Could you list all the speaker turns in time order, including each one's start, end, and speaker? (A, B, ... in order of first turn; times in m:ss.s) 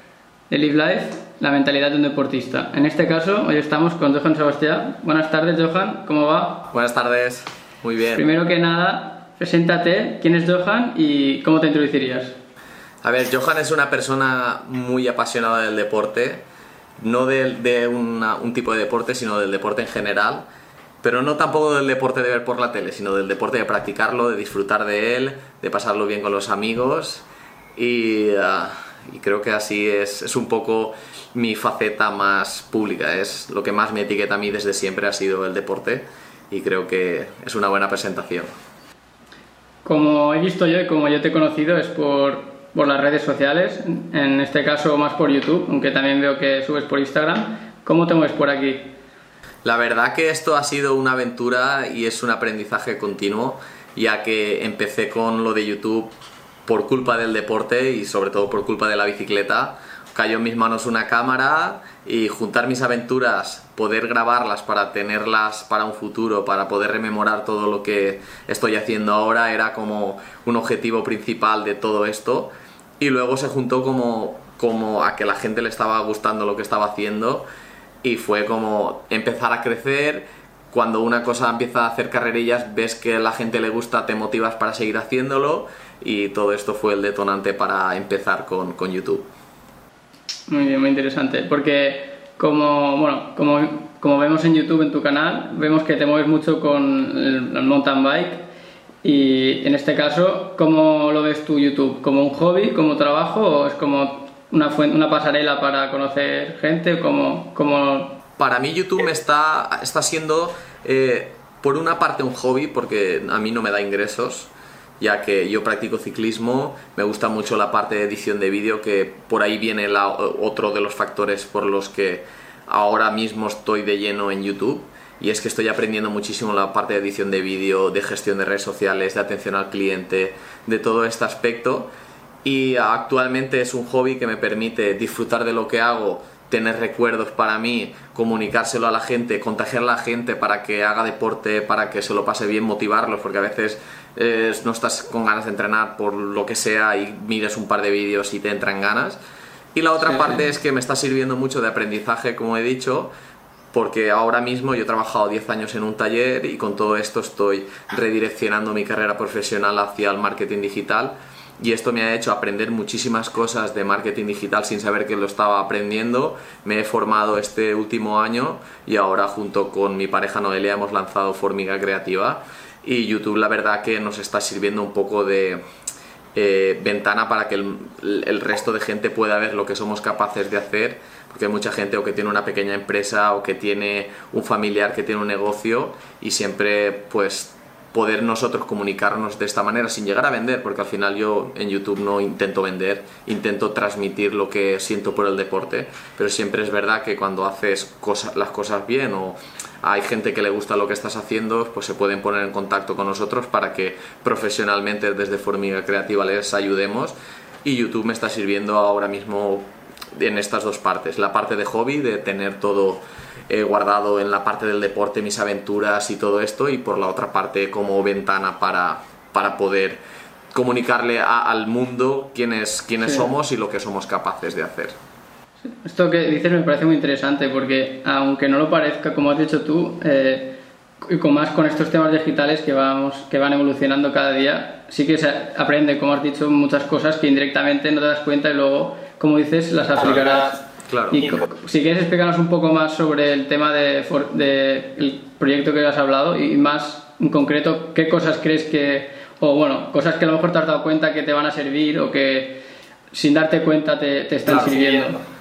0:00.5-0:06.7 A
0:06.7-0:08.2 B
0:08.1-0:12.4 A
0:13.0-0:16.4 B
0:17.0-0:20.4 B
0:21.0-0:38.5 B
0:39.8-0:49.0 A
0:49.6-0:56.1 B
0:56.6-1:17.5 B
1:18.0-1:29.2 B
1:30.5-1:38.4 A
1:39.0-1:48.2 A
1:48.4-2:11.9 B
2:12.4-2:29.2 B
2:29.7-2:33.1 B
2:30.0-2:30.4 A
2:33.7-2:55.6 B
2:56.3-3:40.0 B
3:40.5-3:45.0 B
3:43.0-3:43.3 A
3:45.6-4:15.2 A
4:00.9-4:01.3 B
4:14.5-4:14.9 B